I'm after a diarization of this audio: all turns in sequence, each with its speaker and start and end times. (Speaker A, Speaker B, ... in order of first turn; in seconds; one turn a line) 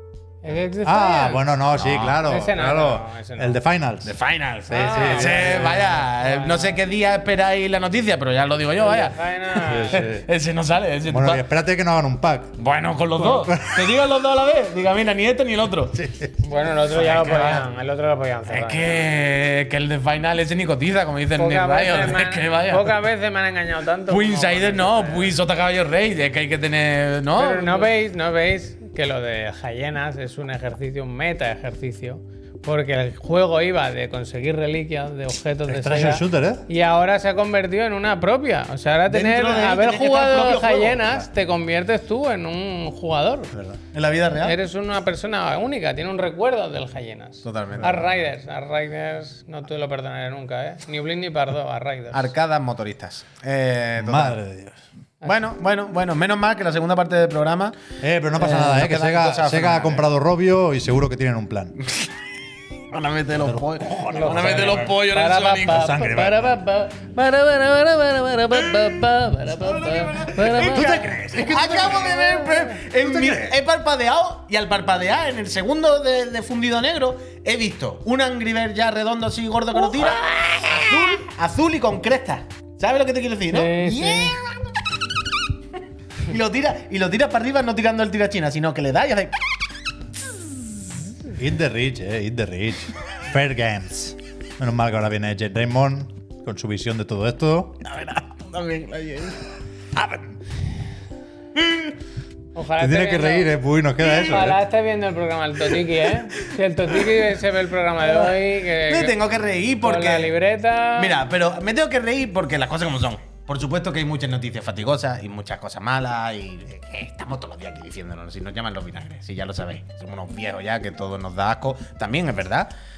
Speaker A: 0.4-1.5
Speaker B: 0.8-4.2
Speaker C: 1.7-2.2
Speaker A: 2.2-3.6
Speaker C: 4.0-11.4
Speaker B: 4.7-6.0
Speaker A: 4.7-6.8
Speaker A: 8.8-10.1
Speaker B: 9.7-10.3
Speaker B: 11.1-12.6
Speaker C: 12.6-16.0
Speaker B: 13.2-14.0
Speaker B: 16.0-16.3
Speaker A: 16.4-19.1
Speaker C: 16.9-17.7
Speaker C: 18.5-23.0
Speaker A: 21.4-25.3
Speaker C: 24.1-27.9
Speaker A: 27.4-43.5
Speaker B: 35.7-36.7
Speaker C: 39.1-41.2
Speaker B: 43.5-43.8
Speaker C: 43.9-44.6
Speaker A: 44.4-52.3
Speaker C: 47.4-48.1
Speaker C: 52.1-54.4
Speaker B: 54.0-54.8
Speaker C: 55.2-57.8
Speaker B: 58.0-61.8
Speaker C: 58.4-60.1
Speaker C: 61.8-62.1
Speaker C: 62.9-65.9
Speaker B: 63.4-65.0
Speaker A: 64.1-71.2
Speaker B: 65.7-66.6
Speaker C: 69.5-84.8
Speaker B: 70.5-72.4
Speaker A: 71.7-72.8
Speaker B: 72.9-73.6
Speaker A: 83.5-84.4
Speaker C: 86.2-89.3
Speaker B: 91.3-97.8
Speaker C: 97.8-99.5
Speaker A: 102.5-109.2
Speaker B: 102.8-104.6
Speaker C: 108.0-110.3
Speaker A: 109.8-111.2
Speaker C: 111.0-122.7